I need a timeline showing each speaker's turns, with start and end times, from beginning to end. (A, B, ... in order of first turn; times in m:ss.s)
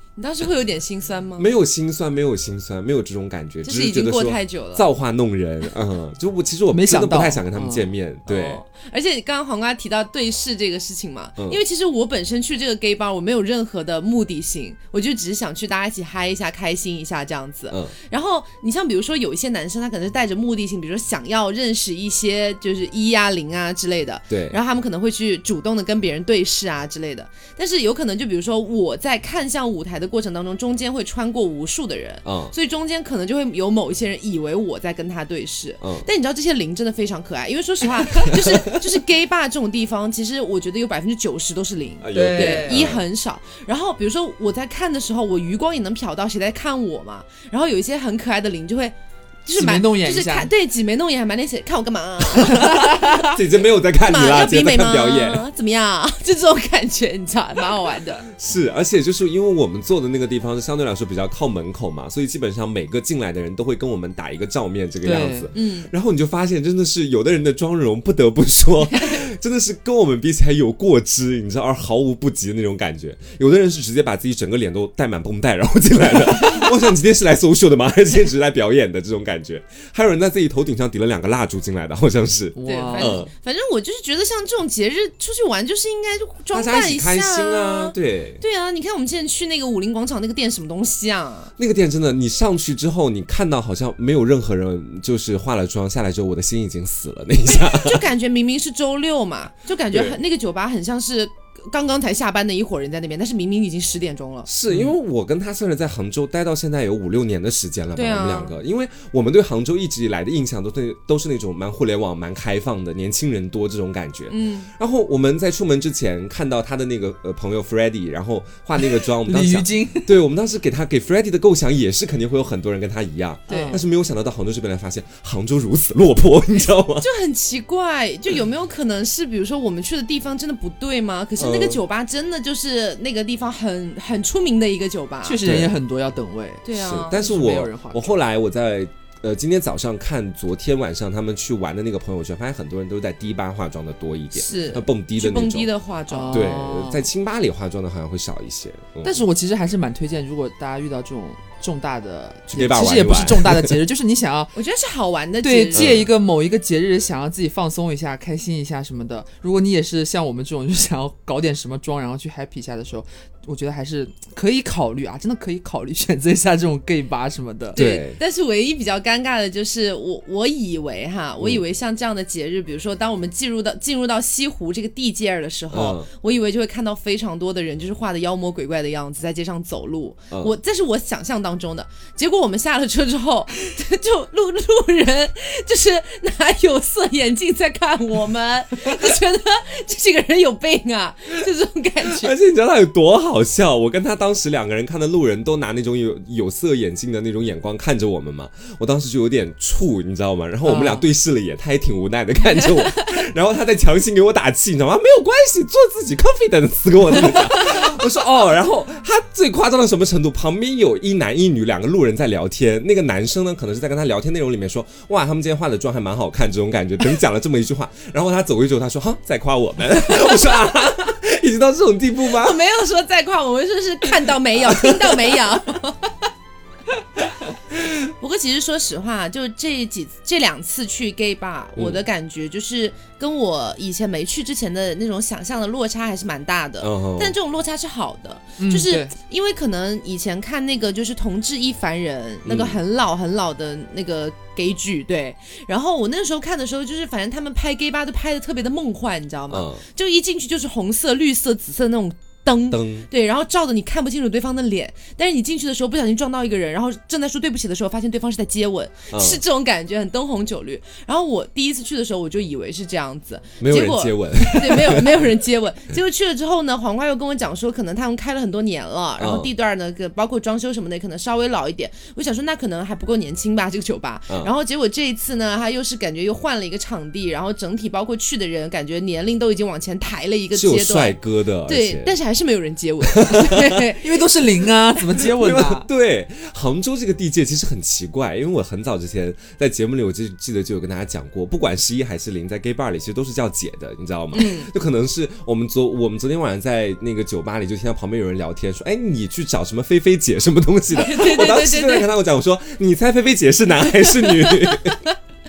0:00.2-0:01.5 A
0:01.4-0:08.6 B
0:03.6-0:04.8 A
0:06.7-0:07.9 C
0:08.3-0:53.4 A
0:24.3-0:24.6 B
0:32.2-0:32.5 B
0:35.8-0:36.0 B
0:38.2-0:38.7 B
0:42.0-0:43.0 B
0:42.1-0:42.8 C
0:49.5-0:50.5 C
0:52.8-0:55.4 B
0:54.0-0:58.2 A
0:58.3-1:23.3 B
1:05.0-1:05.5 C
1:05.5-1:05.9 A
1:22.6-1:23.2 C
1:22.6-1:31.5 A
1:26.5-1:28.4 B
1:31.6-1:38.0 B
1:37.5-1:44.5 A
1:39.9-1:40.2 B
1:44.5-2:07.1 B
1:44.7-1:44.9 C
1:48.0-1:48.6 A
1:54.3-1:54.7 A
1:59.0-2:00.2 C
2:03.5-2:03.8 C
2:03.5-2:03.8 A
2:07.0-2:15.4 A
2:11.4-2:11.8 B
2:15.2-2:18.2 C
2:15.4-2:15.8 B
2:16.6-2:17.2 A
2:16.7-2:25.7 B
2:24.3-2:26.5 A
2:26.1-2:27.1 C
2:26.3-2:29.2 B
2:29.0-2:34.5 C
2:32.5-2:33.7 B
2:34.5-2:36.0 A
2:35.4-2:47.8 C
2:35.7-2:36.1 B
2:47.7-3:12.3 A
2:47.8-2:48.2 B
2:55.7-2:56.1 B
3:12.1-3:42.6 B
3:20.6-3:21.1 C
3:42.3-3:46.1 A
3:44.6-3:45.2 B
3:48.2-4:44.1 A
3:51.8-3:52.0 B
3:56.8-3:57.3 B
3:58.6-3:59.1 C
4:02.4-4:02.8 B
4:09.5-4:09.8 B
4:12.7-4:13.1 B
4:19.1-4:19.4 B
4:23.6-4:25.3 B
4:29.2-4:29.5 B
4:40.5-4:42.2 B
4:43.1-4:43.7 B
4:44.0-4:45.9 C
4:45.2-5:05.0 B
4:54.3-4:54.7 A
5:00.9-5:02.1 A
5:04.2-5:05.0 A